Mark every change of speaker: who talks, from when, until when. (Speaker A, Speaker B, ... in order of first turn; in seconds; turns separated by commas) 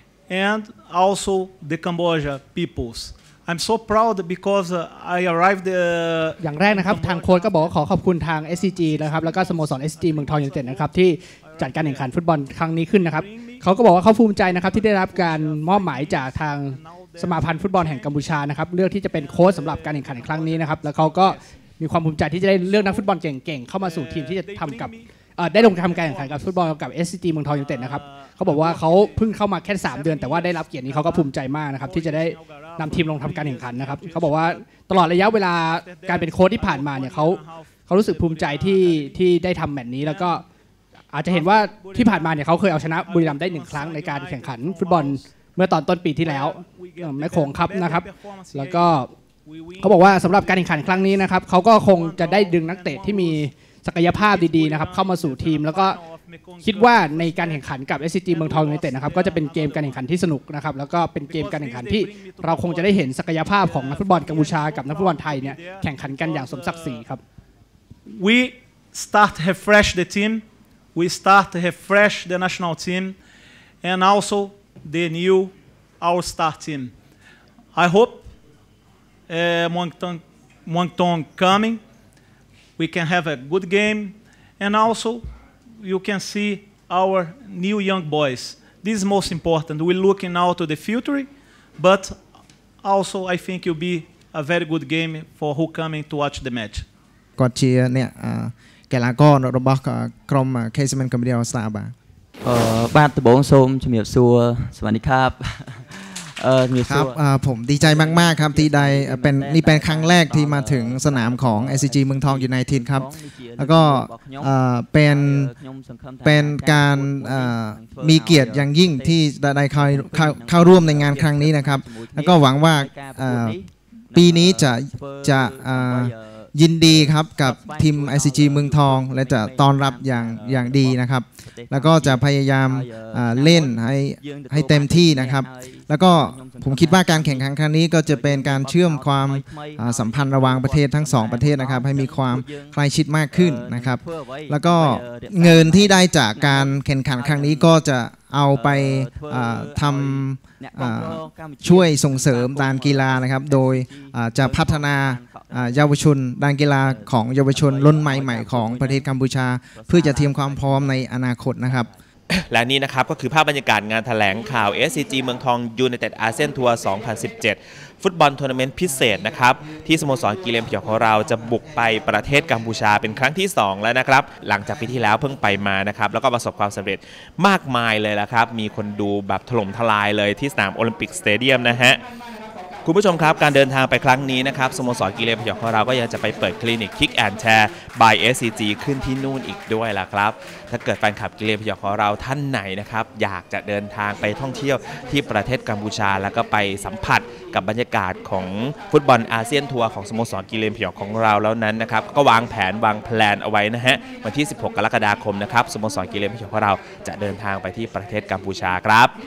Speaker A: 0.3-7.8, Speaker B: 6.4-40.4, Speaker A: 8.5-12.1, Speaker A: 13.1-21.4, Speaker A: 22.7-23.1, Speaker A: 23.8-26.7, Speaker A: 27.5-34.7, Speaker A: 35.2-39.3, Speaker A: 40.0-40.4, Speaker B: 41.1-49.1, Speaker A: 41.2-45.2, Speaker A: 46.2-53.5, Speaker B: 49.8-56.0, Speaker A: 54.0-60.0, Speaker B: 56.6-67.2, Speaker A: 61.3-67.0, Speaker A: 68.1-73.2, Speaker A: 73.8-76.9, Speaker A: 77.7-78.3, Speaker A: 79.3-81.8, Speaker A: 82.8-85.3, Speaker A: 85.8-92.2, Speaker A: 92.8-96.8, Speaker C: 97.4-101.9, Speaker D: 102.4-107.2, Speaker C: 106.8-115.5, Speaker D: 107.8-114.4, Speaker D: 115.1-119.1, Speaker C: 116.2-123.6, Speaker D: 119.7-130.9, Speaker C: 124.1-161.9, Speaker D: 131.6-137.4, Speaker D: 138.1-142.7, Speaker D: 143.4-147.7, Speaker D: 148.5-155.8, Speaker D: 157.0-159.0, Speaker D: 159.8-161.0, Speaker E: 162.3-182.0, Speaker E: 182.8-209.1